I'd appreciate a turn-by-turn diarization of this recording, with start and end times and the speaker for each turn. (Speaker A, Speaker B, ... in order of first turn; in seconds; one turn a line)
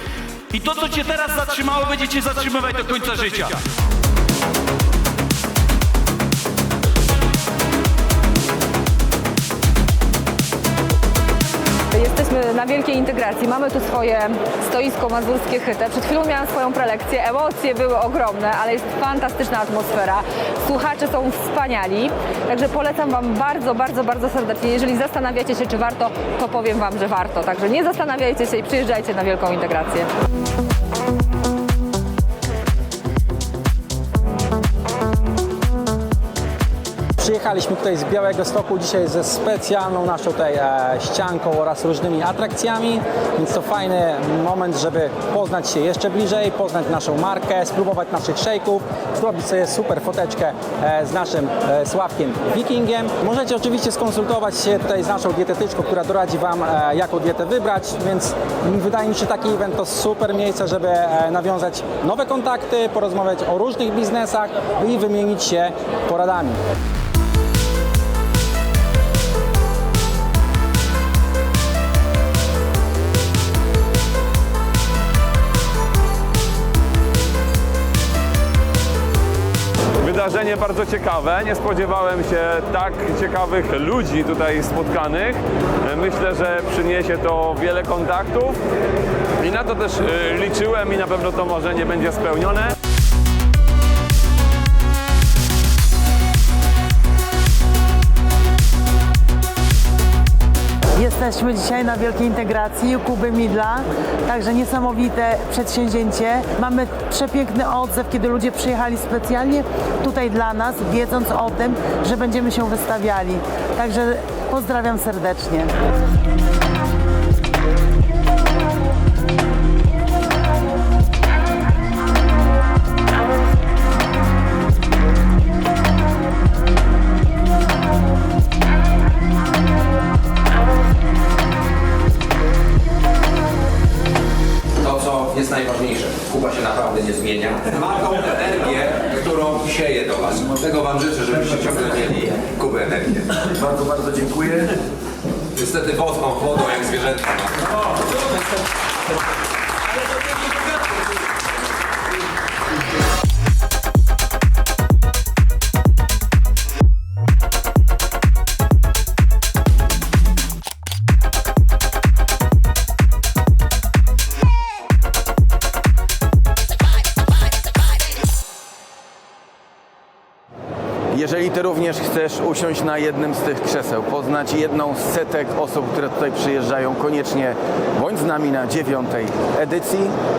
Speaker A: 0.5-3.6
Speaker B: 11.9-30.1
Speaker C: 37.2-66.6
Speaker D: 80.0-88.5
Speaker D: 89.4-92.7
Speaker E: 101.0-115.7
Speaker F: 134.8-143.4
Speaker G: 143.6-144.6
Speaker F: 145.5-147.6
Speaker G: 171.1-180.1